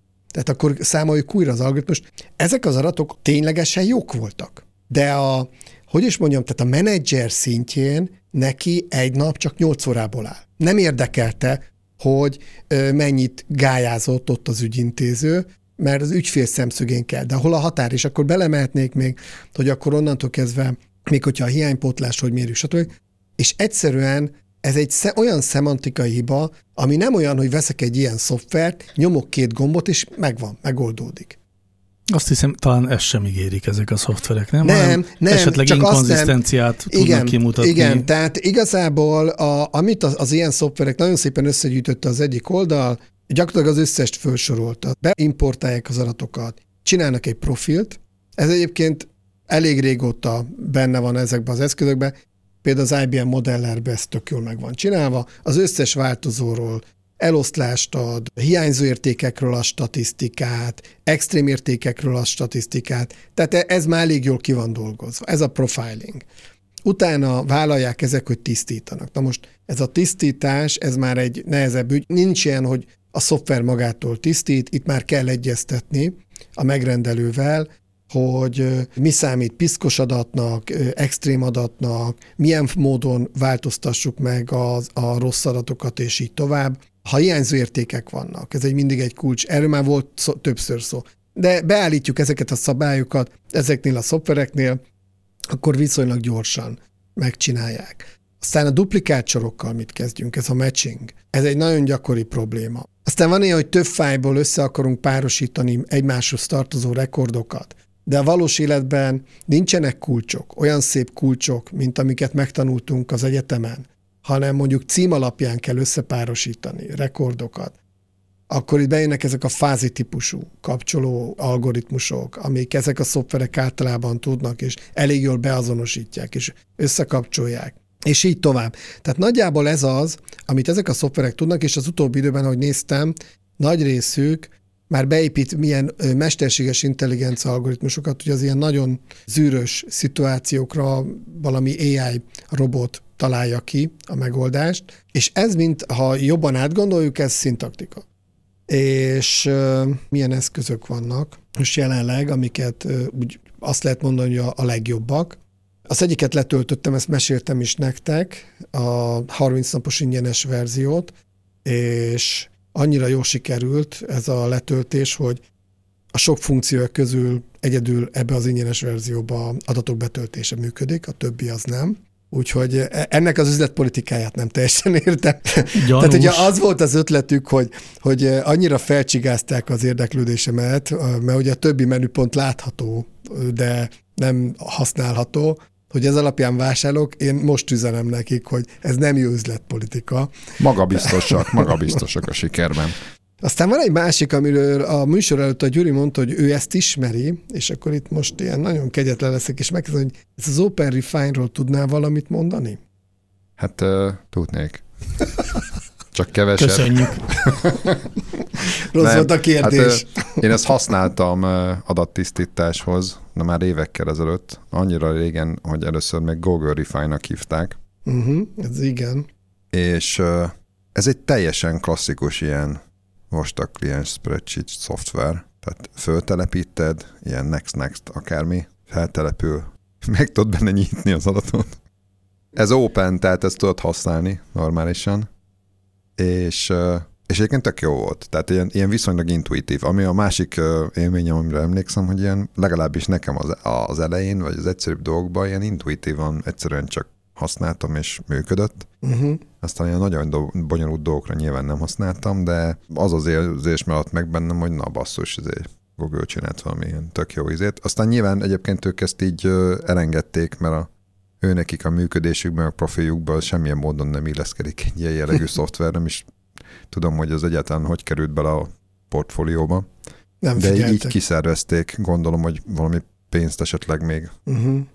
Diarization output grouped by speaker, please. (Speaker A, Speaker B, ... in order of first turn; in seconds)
Speaker A: 0.3-31.4, 34.6-36.4, 36.9-66.2, 66.8-94.8, 95.5-117.8, 118.5-148.0, 148.7-155.4, 155.9-161.1, 161.7-165.4, 166.1-190.4, 190.9-191.4, 193.4-202.8, 208.9-210.4, 218.1-219.3, 249.0-249.4, 270.4-271.1, 274.5-274.9
Speaker B: 32.1-38.1, 175.8-176.5, 206.6-207.2
Speaker C: 190.6-193.0, 203.6-204.8, 206.1-208.0, 209.0-217.8, 219.7-222.8, 223.3-231.8, 232.6-235.3, 236.2-248.9, 249.6-260.9, 261.4-266.3, 266.9-269.9, 270.6-274.3